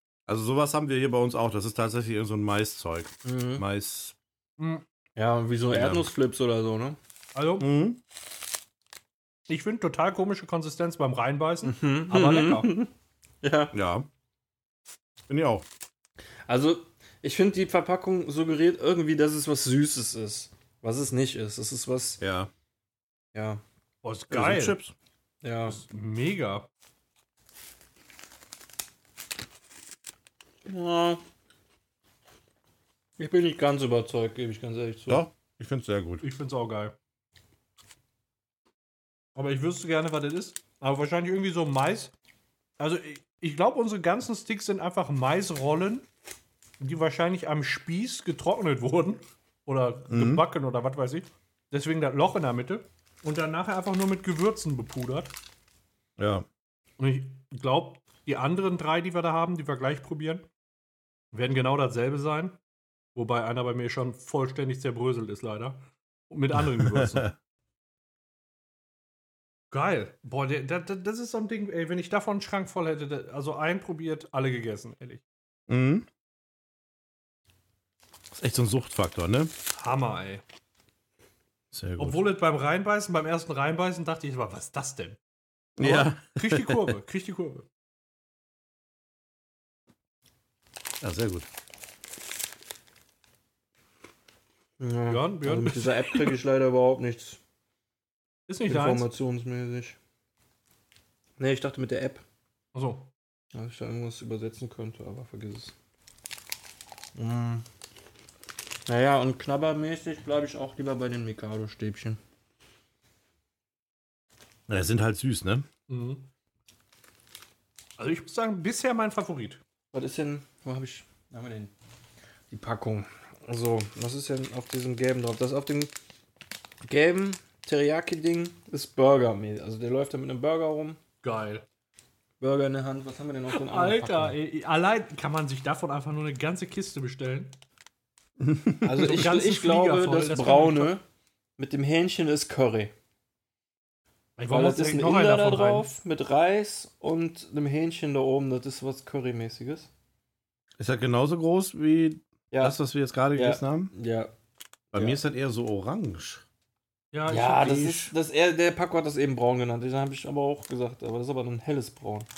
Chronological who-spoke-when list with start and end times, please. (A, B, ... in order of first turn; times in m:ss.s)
0:00.3-0:04.1 A
0:03.2-0:03.6 B
0:04.6-0:04.8 C
0:05.2-0:07.0 B
0:05.7-0:06.1 A
0:07.3-0:07.7 C
0:07.6-0:08.0 A
0:09.5-0:12.7 C
0:11.6-0:12.9 B
0:13.4-0:13.7 B
0:13.7-0:14.1 A
0:15.3-0:15.6 A
0:16.5-0:22.2 B
0:22.2-0:22.5 A
0:23.3-0:23.6 B
0:24.0-0:24.8 C
0:24.3-0:24.9 A
0:25.4-0:25.8 B
0:25.7-0:26.7 C
0:30.6-0:31.2 B
0:33.2-0:35.2 B
0:35.1-0:36.2 A
0:36.2-0:37.0 C
0:39.4-0:42.1 C
0:42.8-0:46.0 C
0:46.8-0:55.3 C
0:50.1-0:50.4 A
0:56.2-0:56.4 A
0:57.0-1:00.5 C
1:01.3-1:02.6 C
1:03.1-1:07.3 C
1:06.6-1:07.3 A
1:09.7-1:15.2 C
1:15.7-1:16.1 A
1:18.3-1:19.5 A
1:19.7-1:20.4 C
1:21.7-1:22.2 A
1:22.0-1:25.2 C
1:25.8-1:26.9 A
1:25.8-1:27.7 C
1:31.0-1:31.5 A
1:34.8-1:37.4 B
1:35.1-1:36.3 C
1:38.5-1:39.1 C
1:38.7-1:40.0 B
1:41.4-1:42.2 B
1:42.7-1:43.1 C
1:43.5-1:45.7 B
1:47.1-1:47.6 B
1:48.9-1:52.2 B
1:54.7-1:55.7 A
1:55.9-1:56.3 C
1:58.0-1:59.6 C
1:59.9-2:01.7 B
2:02.5-2:05.9 B
2:06.8-2:11.0 B
2:11.2-2:11.6 C
2:12.4-2:14.4 B
2:13.5-2:17.6 C
2:18.4-2:18.9 A
2:18.8-2:21.0 B
2:19.0-2:20.9 C
2:21.6-2:22.9 B
2:24.4-2:25.9 C
2:24.5-2:29.9 B
2:30.8-2:33.9 A
2:32.5-2:32.8 B
2:33.3-2:34.3 B
2:34.9-2:35.2 B
2:34.9-2:36.4 A
2:37.1-2:38.0 C
2:37.3-2:42.3 B